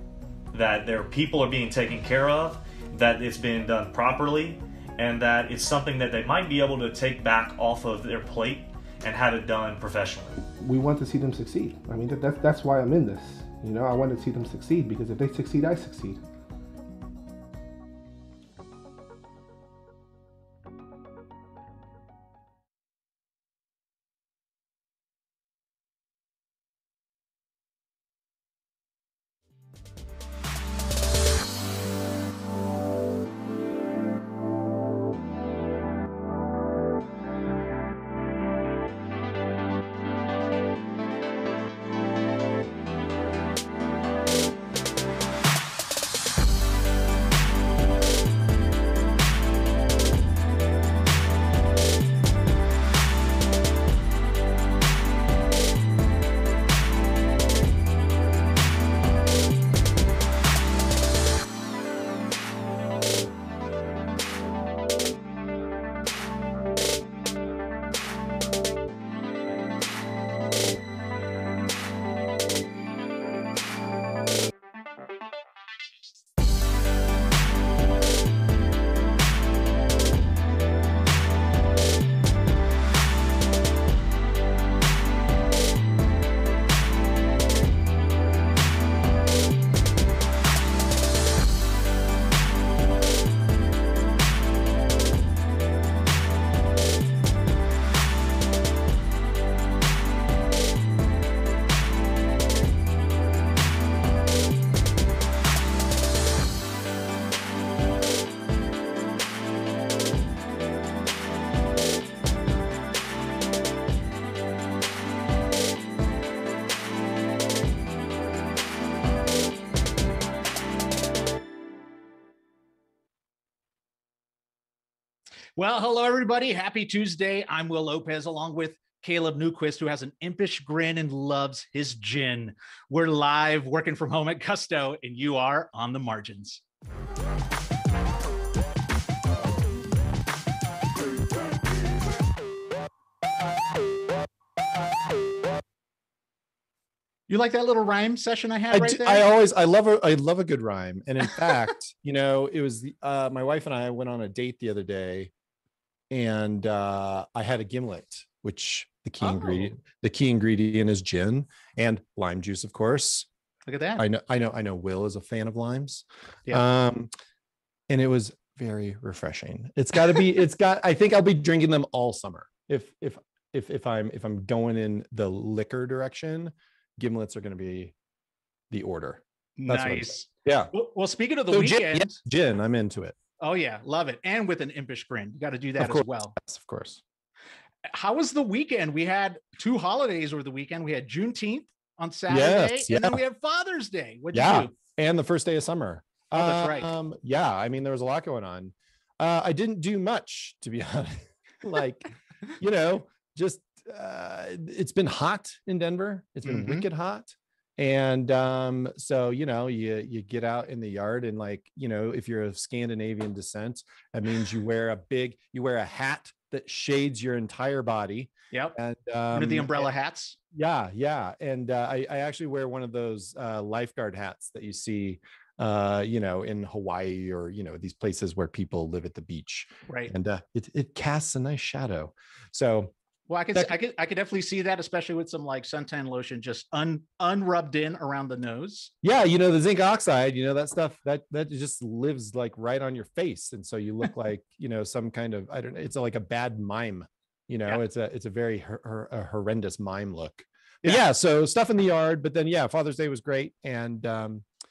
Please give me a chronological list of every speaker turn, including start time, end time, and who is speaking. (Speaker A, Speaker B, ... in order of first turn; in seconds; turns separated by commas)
Speaker A: 0.5-10.4, Speaker B: 10.6-16.2, Speaker C: 125.6-136.6, Speaker C: 147.3-149.2, Speaker D: 148.7-155.3, Speaker D: 156.1-163.3, Speaker C: 159.2-159.7, Speaker C: 163.7-164.0, Speaker D: 164.0-167.1, Speaker D: 167.9-177.9, Speaker D: 178.7-180.7, Speaker C: 179.6-182.2, Speaker D: 181.5-183.2, Speaker C: 183.4-186.3, Speaker D: 185.8-187.0, Speaker C: 187.9-194.7, Speaker D: 192.3-193.2, Speaker D: 194.3-219.9, Speaker C: 196.3-196.9, Speaker C: 206.4-206.8, Speaker C: 219.3-220.4, Speaker D: 220.5-232.9, Speaker C: 229.9-230.1, Speaker C: 233.3-238.9, Speaker D: 239.0-254.4